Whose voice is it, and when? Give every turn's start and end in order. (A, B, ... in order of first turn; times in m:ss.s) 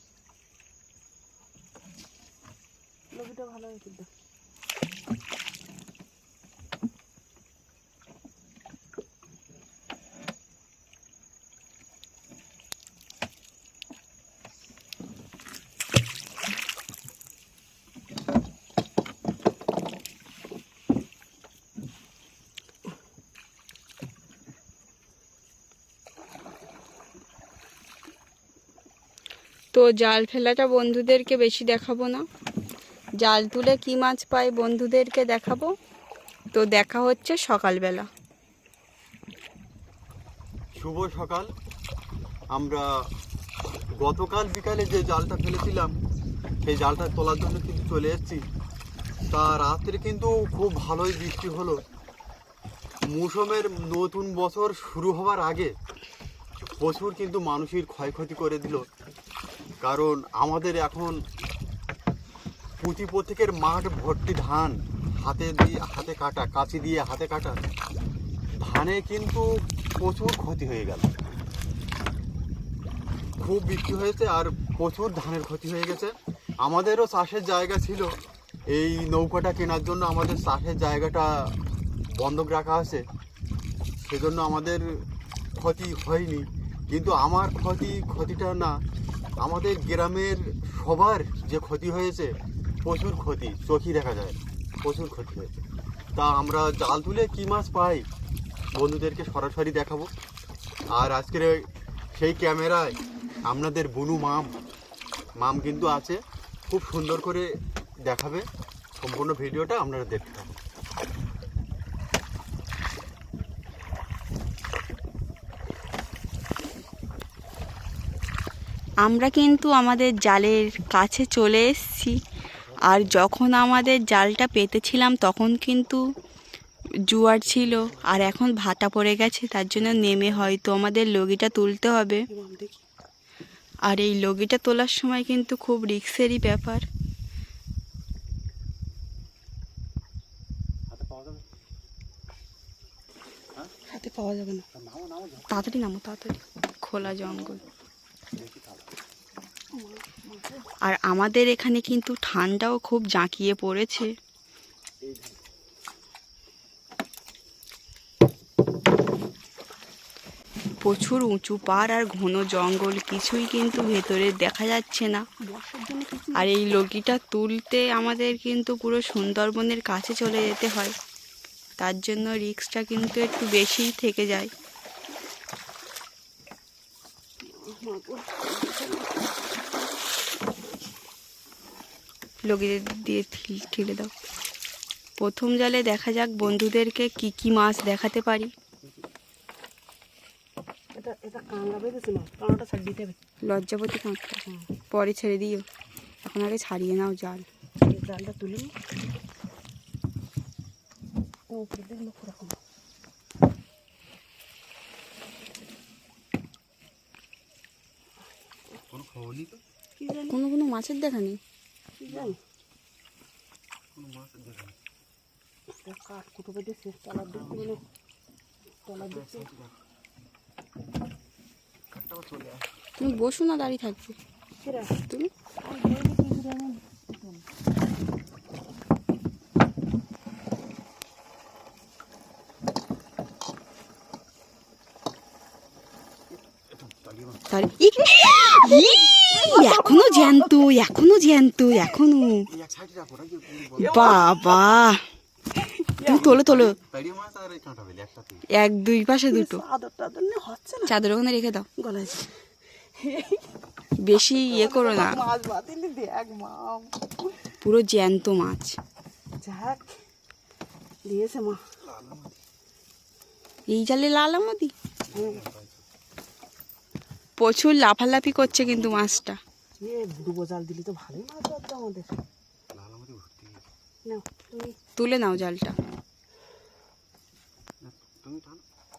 0:03.1-0:04.1 A
0:29.7-0:32.3 B
0:33.2-0:35.8 B
0:36.5-0:38.1 B
0:40.8-0:41.5 C
0:42.5-0:42.9 C
0:44.0-0:45.9 C
0:46.6-0:48.4 C
0:49.3-0:51.8 C
0:53.1-0:55.7 C
0:56.6-0:58.9 C
0:59.8-1:01.2 C
1:02.8-1:07.6 C
1:08.6-1:09.5 C
1:10.0-1:11.1 C
1:13.4-1:18.1 C
1:18.7-1:21.5 C
1:22.1-1:23.0 C
1:24.0-1:25.0 C
1:25.6-1:28.8 C
1:29.4-1:32.3 C
1:32.8-1:35.6 C
1:36.2-1:38.1 C
1:38.8-1:40.1 C
1:40.9-1:44.6 C
1:45.4-1:47.5 C
1:48.0-1:50.6 C
1:59.0-2:02.2 B
2:02.6-2:03.3 C
2:02.8-2:06.0 B
2:07.1-2:12.3 B
2:07.5-2:08.4 C
2:09.8-2:10.6 C
2:12.3-2:12.8 A
2:13.8-2:16.9 B
2:20.9-2:21.4 C
2:23.9-2:24.7 A
2:24.7-2:25.7 C
2:25.5-2:27.6 B
2:27.0-2:27.8 C
2:28.3-2:28.9 C
2:29.7-2:30.7 A
2:30.8-2:34.1 B
2:35.0-2:35.4 C
2:40.8-2:45.3 B
2:45.4-2:46.6 A
2:46.4-2:51.0 B
2:51.8-2:54.5 B
2:57.4-2:59.3 A
3:02.4-3:04.1 B
3:05.2-3:08.5 B
3:11.0-3:13.2 A
3:13.4-3:14.4 B
3:14.9-3:15.6 B
3:16.2-3:17.5 B
3:17.9-3:18.7 A
3:21.5-3:22.6 A
3:28.9-3:29.6 C
3:30.0-3:30.4 A
3:30.3-3:31.4 B
3:32.0-3:32.4 A
3:32.1-3:32.4 C
3:34.0-3:34.8 C
3:35.8-3:37.8 A
3:37.3-3:37.8 C
3:38.8-3:39.5 A
3:39.0-3:39.8 C
3:42.1-3:42.7 C
3:43.0-3:44.2 B
3:44.6-3:45.0 A
3:45.0-3:45.3 B
3:45.6-3:47.4 A
3:56.3-3:57.4 C
3:57.5-4:02.5 B
3:58.2-4:00.6 A
4:02.5-4:04.2 C
4:03.8-4:04.7 A
4:03.8-4:05.0 B
4:05.6-4:06.3 A
4:06.0-4:06.8 B
4:06.1-4:08.4 C
4:08.5-4:09.6 B
4:09.3-4:10.9 A
4:10.9-4:11.7 B
4:11.8-4:12.3 A
4:13.0-4:13.4 A
4:14.0-4:15.2 B
4:14.4-4:17.5 A
4:17.6-4:18.8 B
4:19.4-4:20.0 A
4:21.1-4:21.6 A
4:21.8-4:22.4 C
4:23.7-4:24.7 B
4:25.1-4:25.8 C
4:25.1-4:25.4 A
4:27.4-4:29.4 B
4:28.3-4:29.2 C
4:29.8-4:32.2 A
4:32.7-4:33.7 C
4:34.0-4:34.8 A
4:35.0-4:35.8 B
4:37.8-4:38.6 C